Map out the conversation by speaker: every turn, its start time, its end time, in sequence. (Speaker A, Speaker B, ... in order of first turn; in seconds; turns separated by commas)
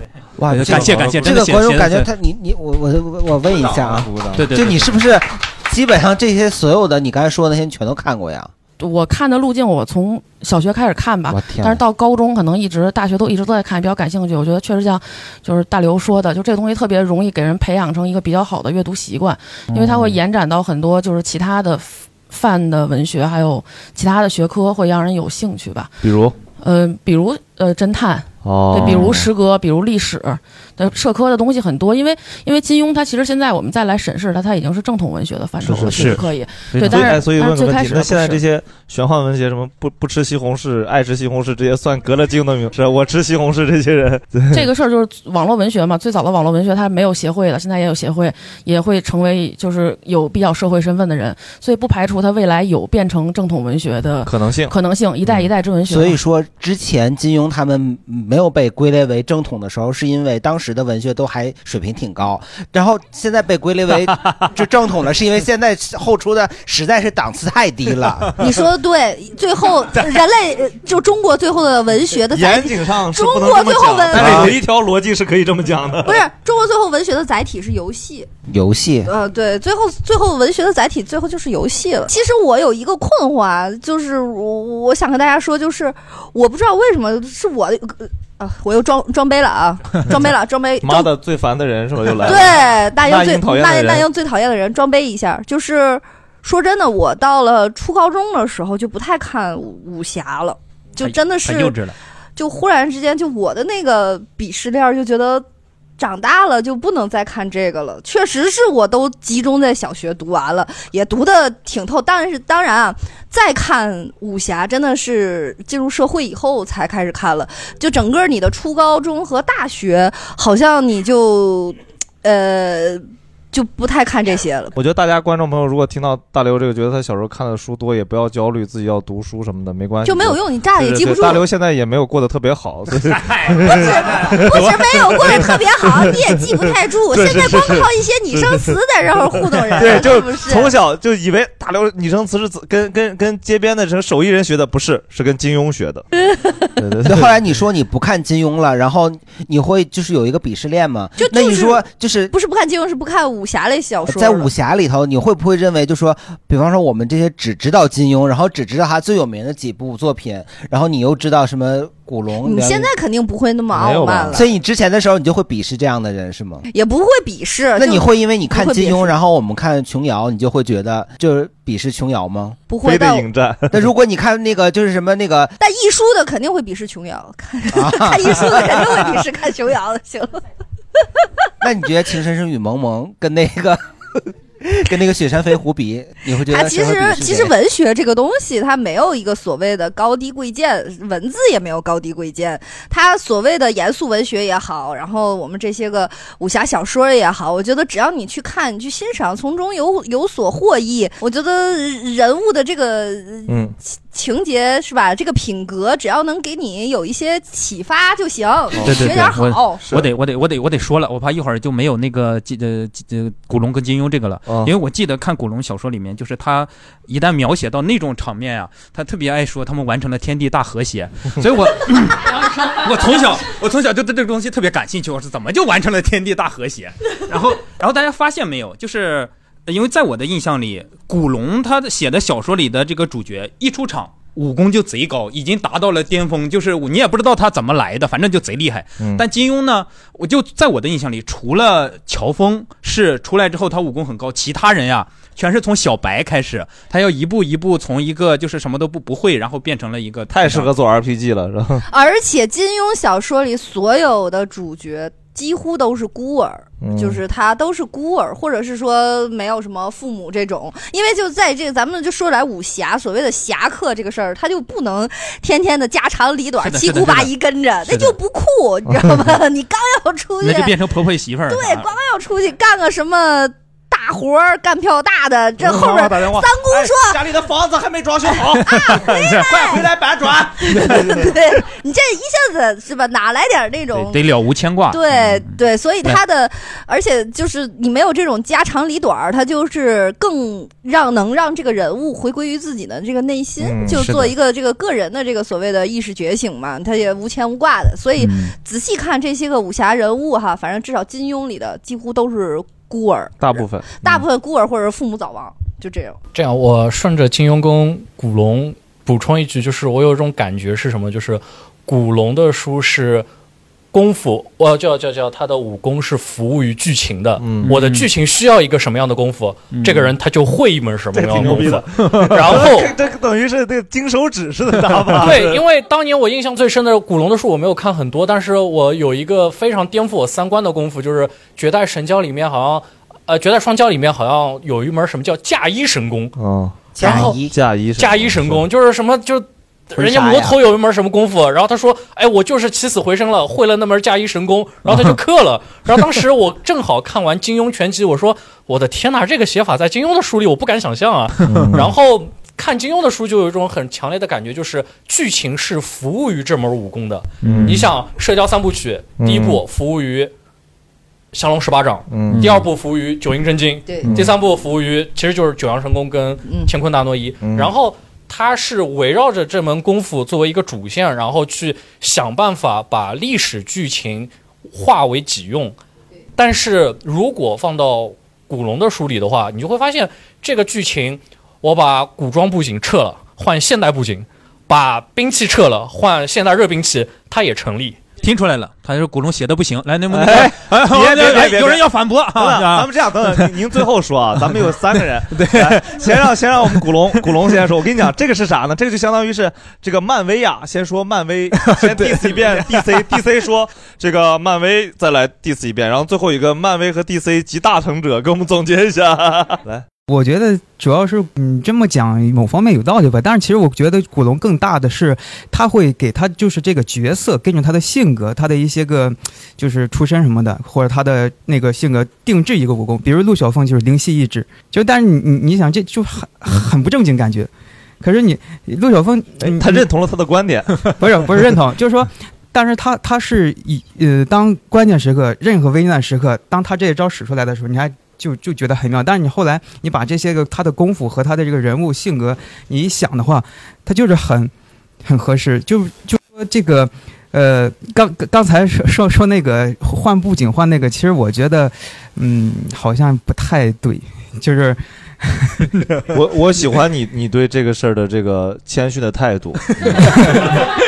Speaker A: 0.4-8.5, Speaker B: 0.5-2.1, Speaker C: 0.7-1.3, Speaker C: 4.0-4.4, Speaker B: 4.3-5.0, Speaker D: 8.8-25.9, Speaker A: 11.3-11.8, Speaker C: 26.0-26.4, Speaker D: 26.6-38.4, Speaker C: 28.4-29.2, Speaker B: 28.8-29.1, Speaker C: 35.6-36.2, Speaker B: 35.9-36.2, Speaker B: 36.7-37.2, Speaker C: 36.8-44.6, Speaker D: 44.5-56.2, Speaker C: 54.2-54.7, Speaker A: 55.9-68.3, Speaker E: 68.3-74.4, Speaker C: 72.3-76.2, Speaker B: 74.1-74.5, Speaker A: 74.2-74.5, Speaker E: 76.0-78.3, Speaker A: 78.5-79.1, Speaker E: 79.0-91.1, Speaker C: 90.8-94.0, Speaker E: 92.2-101.8, Speaker B: 101.0-101.9, Speaker E: 102.3-105.4, Speaker E: 106.0-124.7, Speaker C: 124.7-138.8, Speaker E: 130.0-131.5, Speaker B: 133.0-134.7, Speaker E: 133.7-140.7, Speaker B: 135.2-135.5, Speaker C: 139.7-146.1, Speaker C: 146.8-147.5, Speaker A: 147.0-152.3, Speaker E: 151.2-154.5, Speaker A: 154.1-162.9, Speaker E: 162.4-164.4, Speaker B: 163.7-164.3, Speaker A: 164.3-166.6, Speaker E: 166.7-169.1, Speaker A: 167.8-172.6, Speaker E: 172.7-173.3, Speaker C: 172.8-173.9, Speaker A: 173.7-175.5, Speaker E: 175.6-180.3, Speaker A: 177.7-179.1, Speaker A: 181.6-183.8, Speaker A: 184.6-187.6, Speaker E: 186.4-203.6, Speaker C: 203.5-203.7, Speaker E: 204.1-209.8, Speaker C: 208.7-210.1, Speaker B: 208.8-250.7, Speaker C: 214.5-214.7, Speaker C: 250.3-251.8, Speaker E: 251.9-270.8, Speaker C: 256.8-257.2, Speaker B: 266.6-267.3, Speaker B: 270.4-271.9, Speaker E: 271.5-277.2, Speaker C: 275.6-281.3, Speaker E: 278.3-279.9, Speaker B: 278.7-279.3, Speaker E: 280.6-284.2, Speaker B: 283.9-286.2, Speaker E: 284.9-306.2, Speaker C: 293.6-294.1, Speaker B: 293.9-294.3, Speaker B: 298.2-298.5, Speaker C: 303.4-304.2, Speaker F: 306.3-313.3, Speaker F: 313.9-322.9, Speaker C: 317.4-317.7, Speaker B: 317.6-318.1, Speaker B: 319.7-320.1, Speaker C: 321.1-325.6, Speaker B: 321.4-322.5, Speaker F: 325.2-336.3, Speaker C: 336.4-338.6, Speaker A: 336.9-337.5, Speaker F: 337.0-337.4, Speaker F: 338.0-360.3, Speaker A: 340.0-340.6, Speaker B: 351.4-351.8, Speaker C: 351.5-351.9, Speaker C: 357.4-357.8, Speaker B: 357.4-357.9, Speaker C: 359.2-359.6, Speaker F: 361.3-375.8, Speaker C: 362.1-362.6, Speaker B: 362.3-362.6, Speaker C: 364.0-364.3, Speaker E: 366.4-366.7, Speaker C: 367.4-367.7, Speaker F: 376.4-388.0, Speaker B: 388.2-393.8, Speaker C: 390.1-409.9, Speaker B: 394.5-397.6, Speaker B: 401.6-403.1, Speaker G: 410.1-427.5, Speaker G: 428.0-429.9, Speaker C: 429.4-430.9, Speaker G: 431.0-444.5, Speaker G: 445.0-455.6, Speaker C: 456.1-460.6